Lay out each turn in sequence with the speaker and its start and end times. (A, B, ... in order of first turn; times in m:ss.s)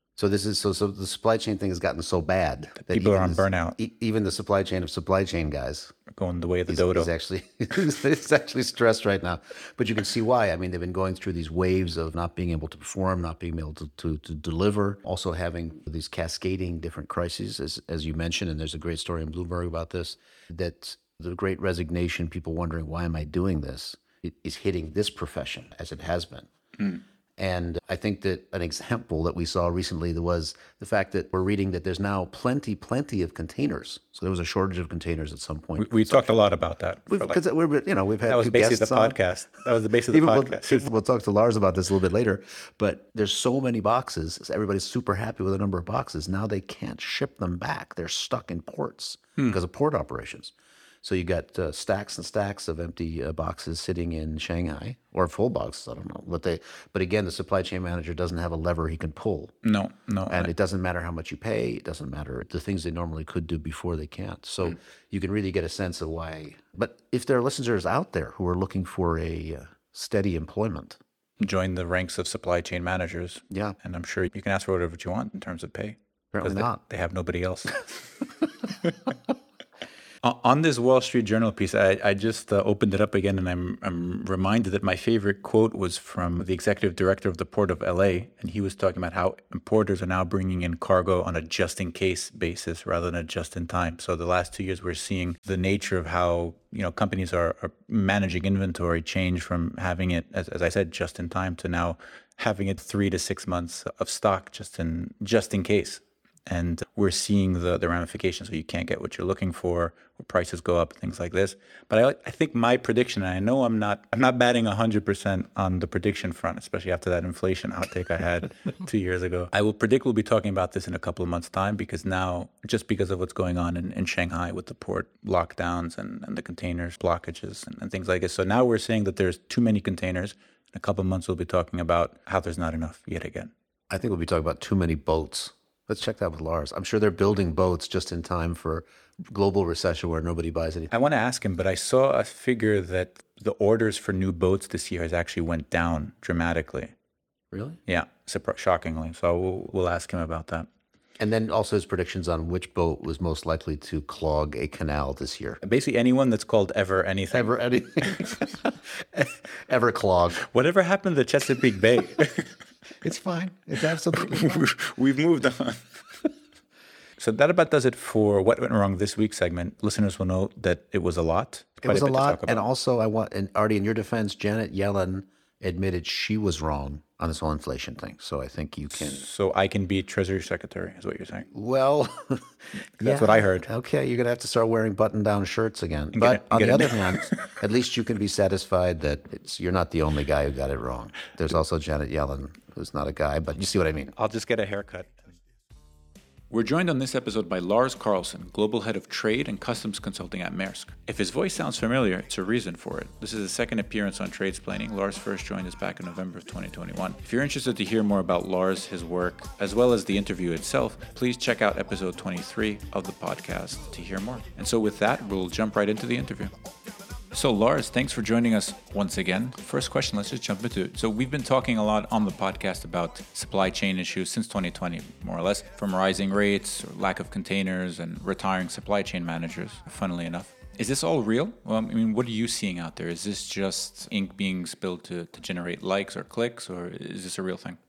0:00.2-0:05.9 A
0:02.8-0:03.8 B
0:06.1-0:07.1 B
0:06.7-0:26.5 A
0:27.4-0:36.4 A
0:35.8-0:37.4 B
0:37.1-0:39.2 A
0:38.3-0:40.9 B
0:40.1-0:59.6 A
0:59.6-1:00.5 B
1:00.3-1:11.0 A
1:11.4-1:18.3 B
1:13.5-1:13.8 A
1:16.3-1:16.8 A
1:20.2-2:13.5 B
2:13.9-2:20.9 A
2:20.9-2:26.9 B
2:27.5-2:27.8 A
2:27.8-2:30.7 B
2:31.2-2:35.6 A
2:35.6-2:38.4 B
2:37.3-2:40.4 A
2:40.5-2:42.6 B
2:43.0-2:44.6 A
2:44.1-2:46.3 B
2:47.2-2:52.6 B
2:51.8-2:59.2 A
2:58.9-3:01.5 B
3:01.5-3:14.1 A
3:03.0-3:03.7 B
3:06.1-3:07.6 B
3:14.1-3:15.1 B
3:16.5-3:36.5 B
3:37.3-3:57.8 B